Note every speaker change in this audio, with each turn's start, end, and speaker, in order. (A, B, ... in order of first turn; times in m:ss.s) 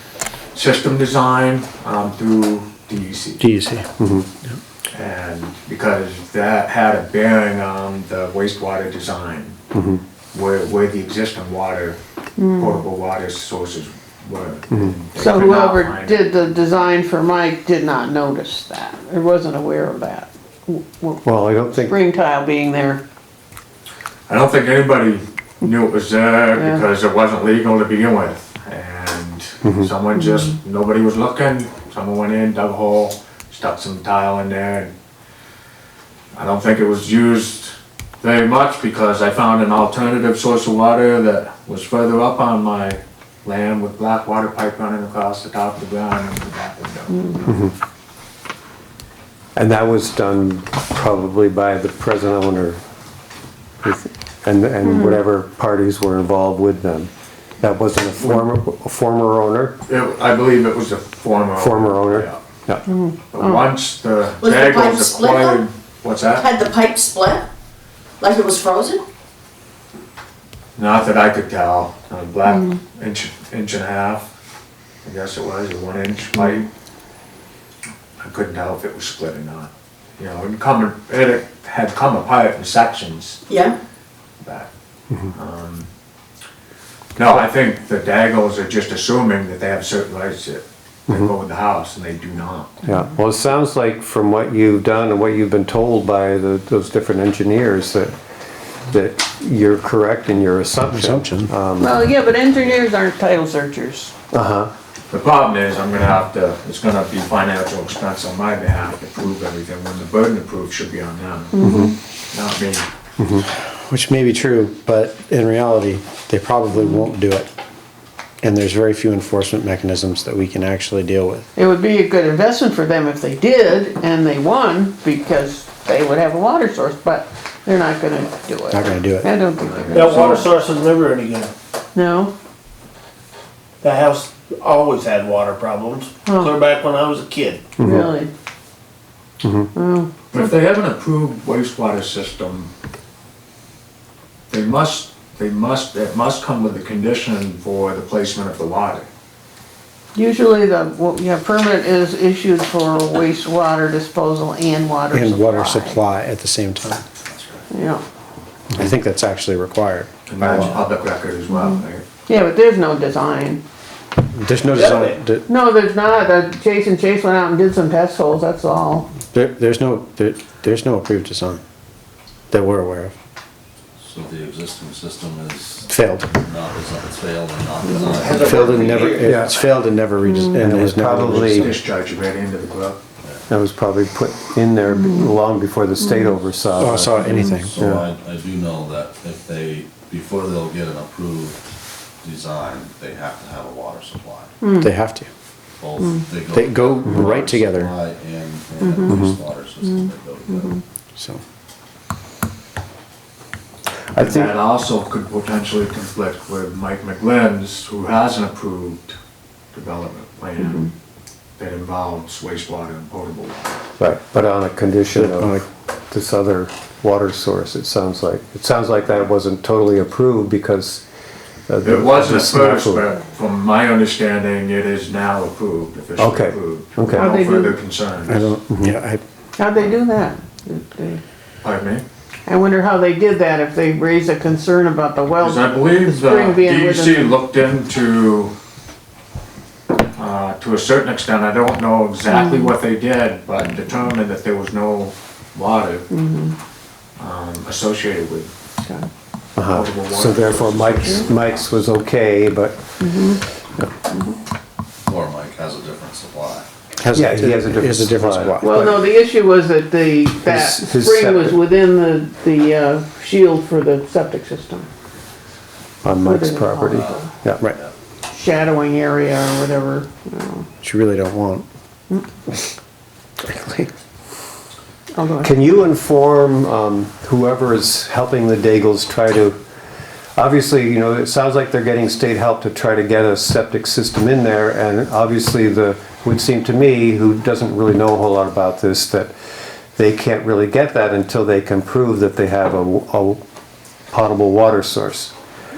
0:00.5-0:03.4 A
0:03.4-0:03.9 B
0:04.0-0:04.3 C
0:04.9-0:09.6 A
0:09.7-0:10.0 C
0:10.3-0:12.0 A
0:12.4-0:12.8 D
0:12.6-0:16.4 A
0:15.2-0:23.0 D
0:21.2-0:21.9 C
0:24.3-0:34.9 A
0:26.5-0:26.8 D
0:29.6-0:29.9 C
0:30.2-0:30.4 D
0:36.3-0:47.5 A
0:47.1-0:47.4 D
0:47.5-0:47.7 C
0:49.6-0:52.8 C
0:53.8-0:57.1 C
0:54.8-0:55.2 D
0:57.6-0:59.8 C
0:59.9-1:02.4 A
1:01.6-1:02.8 C
1:02.9-1:03.7 D
1:03.3-1:06.5 A
1:04.4-1:05.6 E
1:06.4-1:07.5 E
1:08.2-1:09.0 E
1:10.8-1:14.3 A
1:15.0-1:16.7 A
1:18.2-1:23.4 A
1:23.5-1:23.8 E
1:24.4-1:24.7 A
1:25.3-1:25.9 A
1:27.2-1:32.8 A
1:32.8-1:38.1 C
1:38.9-1:42.0 C
1:40.9-1:41.5 B
1:41.8-1:44.1 D
1:44.3-1:44.7 C
1:45.1-1:51.6 A
1:51.5-1:52.0 D
1:51.6-1:51.9 C
1:52.3-1:52.9 A
1:53.2-1:53.5 C
1:53.9-1:57.5 B
1:56.8-1:57.1 D
1:58.4-2:01.5 B
2:01.6-2:10.5 D
2:08.7-2:09.3 B
2:09.9-2:10.3 A
2:09.9-2:11.5 F
2:12.0-2:12.3 D
2:13.8-2:17.6 F
2:16.2-2:16.5 D
2:17.8-2:18.1 C
2:17.8-2:18.3 D
2:19.4-2:19.7 C
2:19.8-2:20.5 D
2:20.3-2:22.7 A
2:24.5-2:29.1 A
2:30.2-2:36.0 D
2:35.1-2:37.0 B
2:37.3-2:37.7 G
2:37.7-2:38.0 D
2:38.8-2:40.8 B
2:40.3-2:42.0 A
2:40.6-2:40.8 G
2:41.5-2:43.6 D
2:44.4-2:45.4 B
2:44.7-2:45.2 F
2:45.5-2:49.1 D
2:49.2-2:51.6 B
2:52.5-2:53.1 B
2:54.0-2:59.8 G
2:55.9-2:56.3 B
2:57.8-2:58.3 D
2:58.2-2:58.5 F
2:58.2-2:59.0 A
2:58.3-3:01.8 B
2:59.2-2:59.5 C
3:00.2-3:00.6 D
3:00.5-3:01.7 C
3:01.3-3:03.0 A
3:03.2-3:03.5 G
3:03.5-3:08.0 C
3:05.0-3:05.3 D
3:06.0-3:06.3 D
3:06.8-3:07.8 B
3:07.1-3:11.7 G
3:12.2-3:14.5 G
3:14.6-3:14.9 D
3:14.8-3:15.3 B
3:15.8-3:20.8 G
3:16.5-3:17.9 B
3:18.8-3:19.2 D
3:20.6-3:20.8 D
3:21.2-3:21.4 B
3:24.2-3:24.5 C
3:24.2-3:29.2 A
3:29.7-3:30.9 A
3:30.6-3:30.9 D
3:31.6-3:33.8 A
3:34.0-3:41.0 C
3:35.2-3:35.7 B
3:41.7-3:43.0 C
3:41.8-3:48.5 A
3:46.2-3:47.3 C
3:47.2-3:47.8 D
3:48.3-3:49.2 B
3:49.6-3:51.2 D
3:51.6-3:52.0 A
3:52.5-3:57.4 D
3:55.4-3:58.5 A
4:00.2-4:06.1 A
4:02.3-4:02.7 D
4:06.1-4:06.6 D
4:07.2-4:08.5 A
4:09.6-4:13.0 C
4:09.7-4:11.8 A
4:13.0-4:13.4 D
4:14.1-4:14.4 D
4:15.1-4:16.7 G
4:17.0-4:19.0 B
4:17.1-4:19.1 C
4:18.6-4:24.9 D
4:20.4-4:21.6 C
4:26.0-4:27.6 C
4:26.2-4:27.3 D
4:26.9-4:28.0 G
4:28.3-4:30.7 D
4:30.8-4:31.7 B
4:33.4-4:33.9 B
4:35.2-4:35.6 D
4:35.4-4:39.6 C
4:40.4-4:49.3 C
4:49.9-4:53.4 C
4:54.1-4:55.3 C